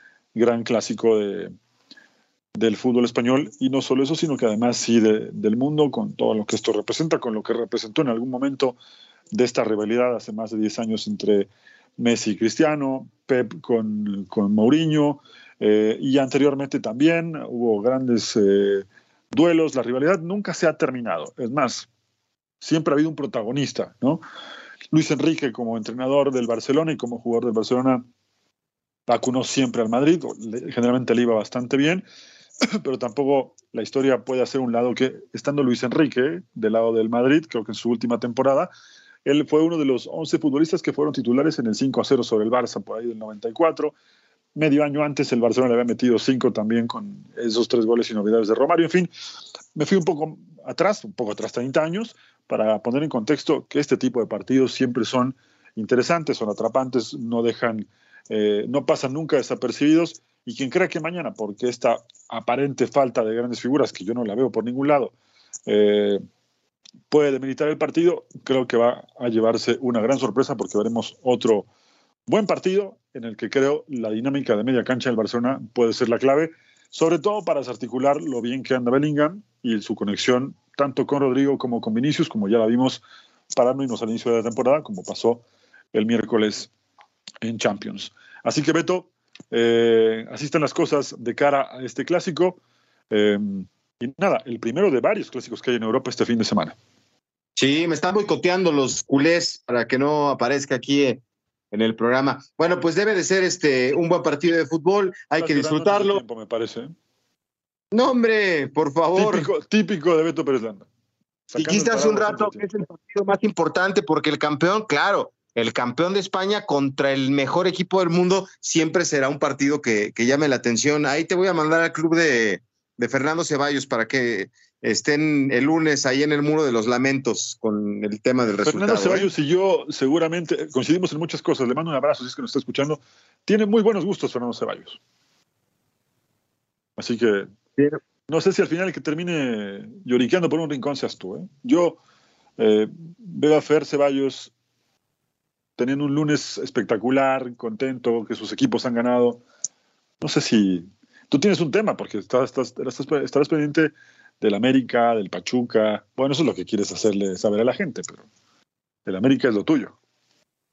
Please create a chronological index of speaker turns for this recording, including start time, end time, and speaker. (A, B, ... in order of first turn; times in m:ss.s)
0:00.3-0:01.5 A
0:02.6-0:08.8 A
0:09.3-0:21.9 A
0:22.6-0:24.2 A
0:24.9-0:28.0 A
0:29.1-0:32.0 A
0:32.6-0:38.7 A
0:39.2-0:43.9 A
0:44.6-0:49.1 A
0:49.8-1:05.1 A
1:05.7-1:06.2 A
1:07.1-1:11.7 A
1:12.3-1:23.0 A
1:23.5-1:26.7 A
1:27.4-1:32.6 A
1:33.1-1:36.8 A
1:37.6-1:41.2 B
1:41.7-1:46.2 B
1:45.4-1:46.9 A
1:47.9-1:49.5 B
1:49.2-1:50.9 A
1:51.5-1:52.6 A
1:51.6-2:09.3 B
2:08.6-2:15.0 A
2:17.0-2:17.5 A
2:18.3-2:22.0 A
2:22.6-2:24.5 A
2:25.8-2:29.4 A
2:30.2-2:38.3 A
2:39.1-2:40.0 A